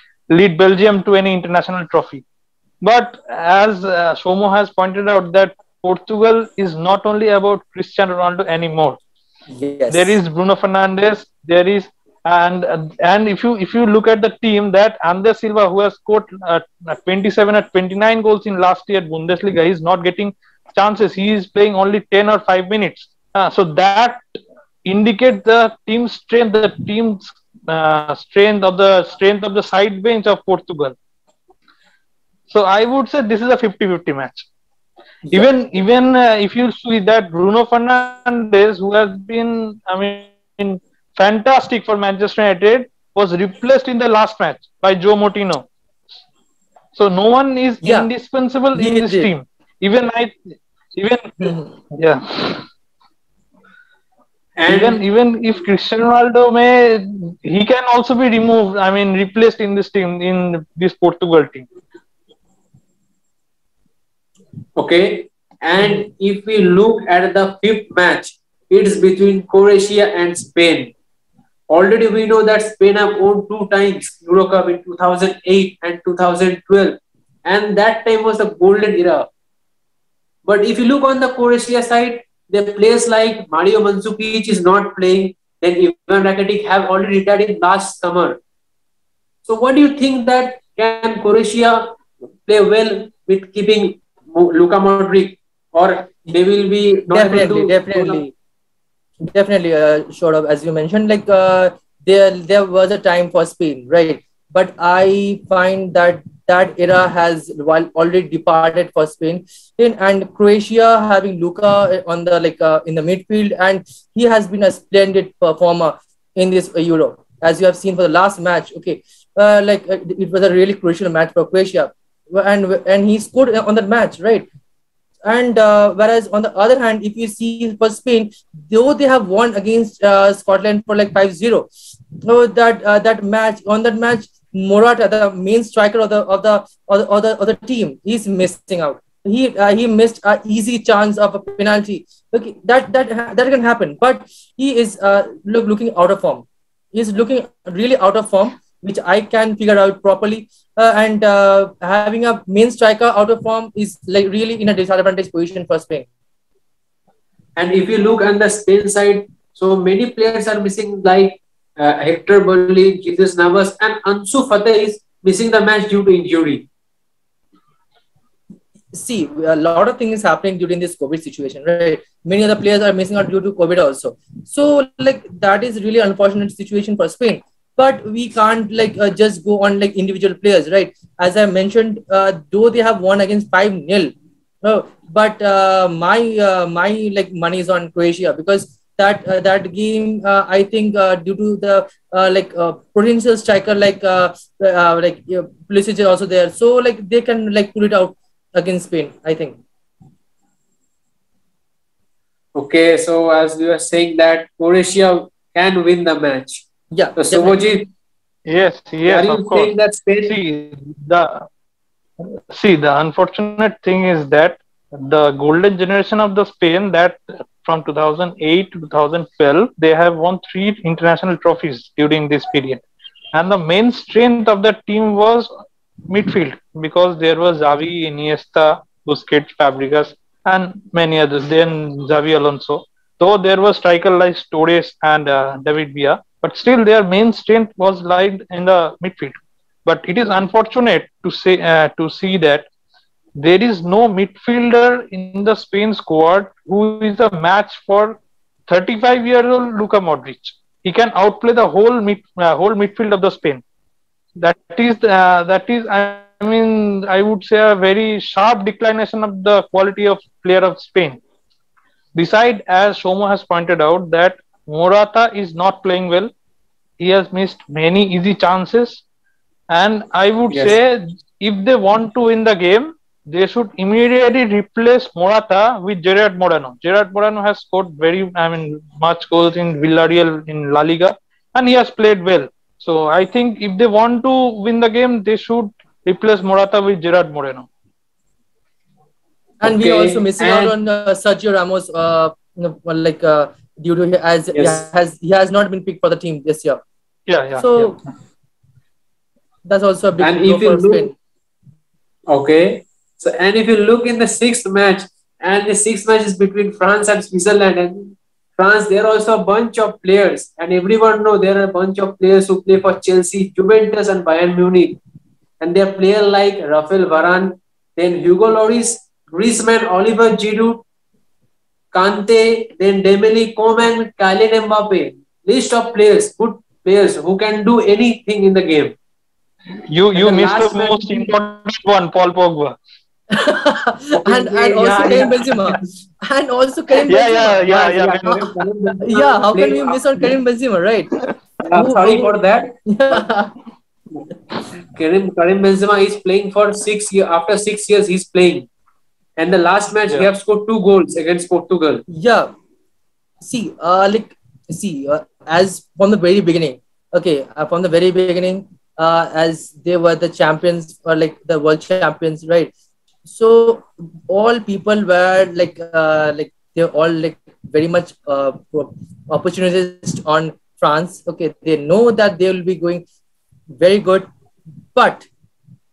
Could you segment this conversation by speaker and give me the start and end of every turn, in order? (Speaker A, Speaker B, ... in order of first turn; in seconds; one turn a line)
Speaker A: 0.3-2.2
Speaker A: 2.8-9.0
Speaker B: 9.5-10.2
Speaker A: 9.9-24.2
Speaker A: 24.8-30.9
Speaker A: 32.5-34.5
Speaker A: 35.3-45.6
Speaker A: 46.9-52.6
Speaker B: 47.8-48.1
Speaker B: 48.7-49.3
Speaker C: 54.6-55.0
Speaker A: 54.7-61.6
Speaker C: 64.8-70.9
Speaker C: 71.7-79.3
Speaker C: 80.4-88.4
Speaker C: 89.5-98.3
Speaker B: 97.1-98.3
Speaker B: 99.2-124.5
Speaker B: 125.2-131.7
Speaker B: 132.2-156.1
Speaker C: 157.6-166.7
Speaker B: 168.9-184.1
Speaker B: 184.6-199.6
Speaker C: 202.5-206.6
Speaker B: 206.9-207.6
Speaker C: 207.2-207.9
Speaker A: 208.5-211.4
Speaker C: 209.1-210.3
Speaker A: 212.2-222.8
Speaker A: 223.3-225.5
Speaker A: 226.1-242.7
Speaker A: 243.3-253.6
Speaker A: 254.4-261.2
Speaker A: 262.1-266.3
Speaker A: 267.0-269.0
Speaker A: 269.7-287.7
Speaker C: 270.5-270.8
Speaker B: 289.6-296.8
Speaker C: 289.6-290.7
Speaker C: 294.5-294.8
Speaker A: 297.3-298.0
Speaker B: 297.6-298.0
Speaker B: 299.6-301.1
Speaker C: 300.2-301.1
Speaker C: 302.3-315.0
Speaker C: 315.6-320.8
Speaker C: 321.9-328.9
Speaker A: 329.9-332.8
Speaker C: 330.1-331.3
Speaker B: 333.3-338.4
Speaker C: 334.1-335.8
Speaker A: 337.1-338.5
Speaker C: 337.6-340.3
Speaker B: 339.0-341.1
Speaker C: 341.6-343.2
Speaker B: 341.7-342.3
Speaker B: 342.9-343.5
Speaker C: 344.8-348.7
Speaker C: 349.4-352.0
Speaker B: 352.1-352.5
Speaker B: 353.4-362.7
Speaker B: 363.3-373.0
Speaker B: 373.8-374.3
Speaker B: 374.9-375.3